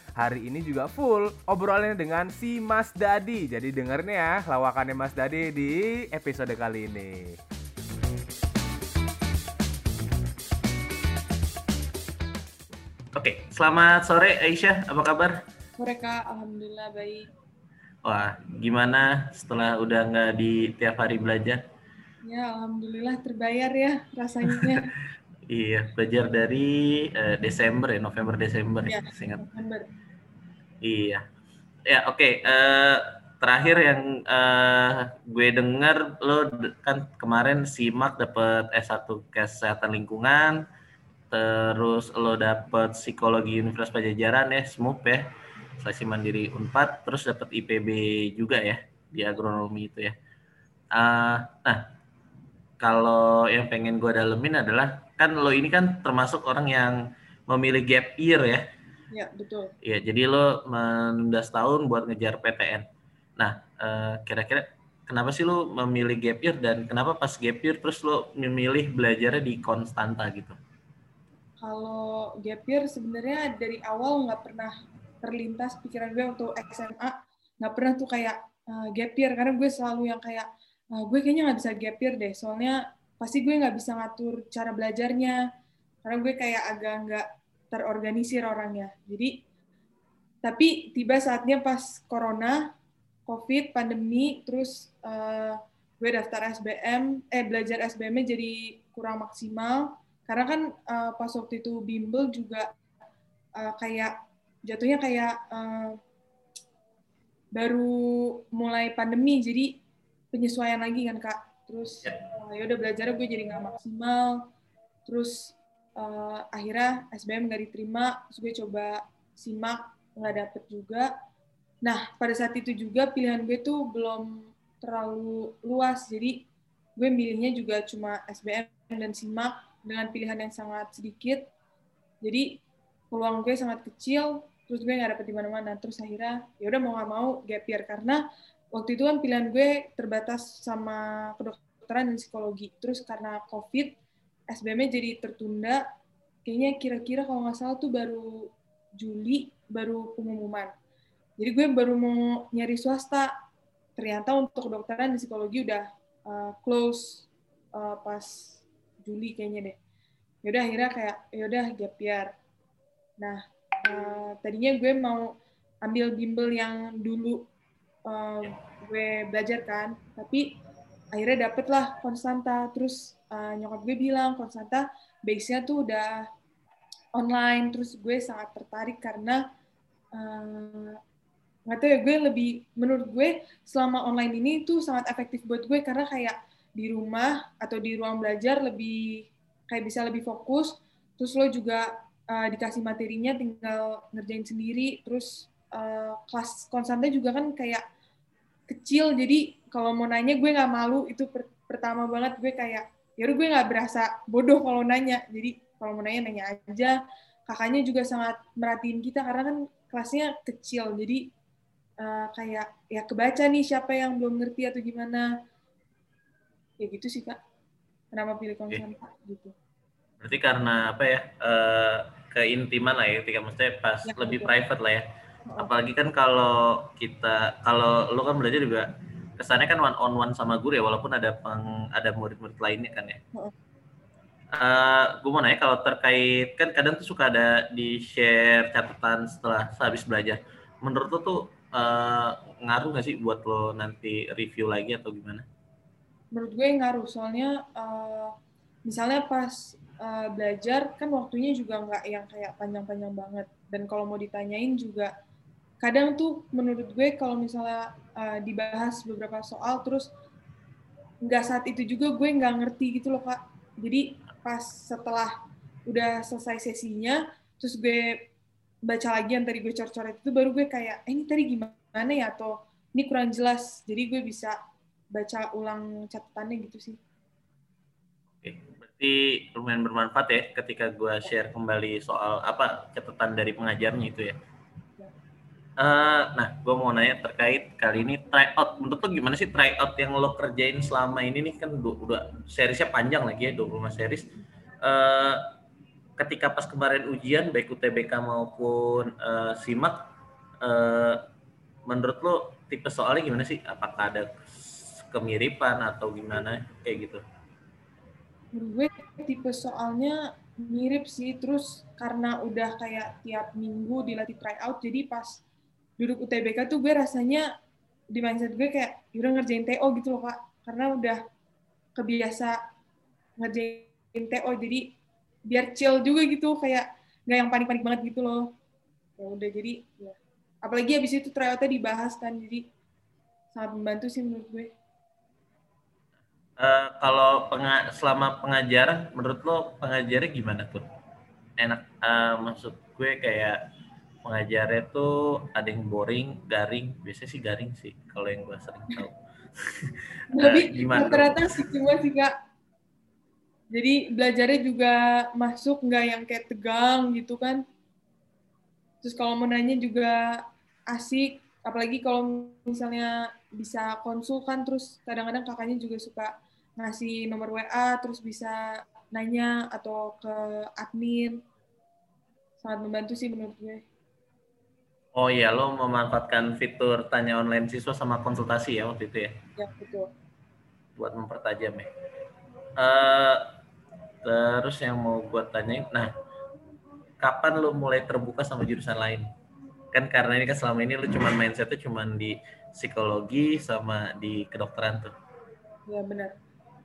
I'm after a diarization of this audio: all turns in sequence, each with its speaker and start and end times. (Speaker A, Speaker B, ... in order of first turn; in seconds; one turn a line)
Speaker A: 0.2-7.4
Speaker B: 13.2-15.4
Speaker C: 15.8-17.3
Speaker B: 18.1-21.6
Speaker C: 22.2-24.9
Speaker B: 25.5-29.4
Speaker C: 28.9-29.9
Speaker B: 30.8-31.2
Speaker B: 31.9-40.6
Speaker B: 41.3-50.1
Speaker B: 50.9-51.8
Speaker B: 52.8-58.6
Speaker C: 59.1-59.7
Speaker B: 59.8-62.9
Speaker B: 63.4-70.6
Speaker C: 71.6-74.7
Speaker C: 75.2-85.4
Speaker C: 86.0-89.3
Speaker C: 90.4-92.6
Speaker C: 93.3-102.7
Speaker C: 103.6-104.1
Speaker C: 104.7-106.0
Speaker C: 107.5-109.7
Speaker C: 110.3-114.4
Speaker C: 115.1-121.1
Speaker C: 121.8-126.4
Speaker C: 127.0-131.4
Speaker C: 132.2-138.2
Speaker C: 138.7-144.0
Speaker C: 144.5-145.8
Speaker C: 146.4-150.7
Speaker C: 151.4-153.3
Speaker C: 154.0-159.8
Speaker C: 160.4-162.3
Speaker C: 163.2-167.4
Speaker C: 168.1-170.6
Speaker C: 171.1-176.3
Speaker C: 177.2-179.4
Speaker C: 180.2-181.0
Speaker C: 181.7-197.8
Speaker C: 198.7-206.9
Speaker C: 207.5-211.2
Speaker C: 212.0-215.3
Speaker C: 216.8-217.4
Speaker C: 218.1-219.5
Speaker B: 220.2-225.1
Speaker C: 224.1-224.5
Speaker B: 225.6-228.9
Speaker B: 229.4-233.2
Speaker B: 234.5-245.4
Speaker C: 246.3-248.3
Speaker C: 248.9-255.1
Speaker C: 255.8-260.1
Speaker C: 261.2-265.3
Speaker C: 265.9-268.2
Speaker C: 268.9-274.6
Speaker C: 275.1-277.0
Speaker B: 278.4-284.4
Speaker B: 285.8-294.3
Speaker B: 294.8-295.4
Speaker B: 296.2-300.1
Speaker B: 300.6-301.2
Speaker B: 301.9-307.2
Speaker C: 308.5-315.4
Speaker C: 316.0-317.4
Speaker C: 318.1-321.2
Speaker C: 322.0-322.6
Speaker C: 323.4-324.9
Speaker C: 325.5-328.4
Speaker C: 329.2-332.6
Speaker C: 333.5-334.7
Speaker B: 336.6-340.9
Speaker B: 341.6-343.6
Speaker B: 344.2-351.6
Speaker C: 350.3-352.3
Speaker C: 353.7-357.6
Speaker C: 359.0-360.4
Speaker C: 360.9-368.6
Speaker C: 369.1-371.4
Speaker C: 372.6-373.9
Speaker B: 375.2-379.4
Speaker C: 379.6-380.1
Speaker B: 381.0-381.9
Speaker B: 382.8-383.4
Speaker B: 384.2-386.1
Speaker B: 387.2-389.3
Speaker B: 389.9-395.1
Speaker C: 395.9-396.3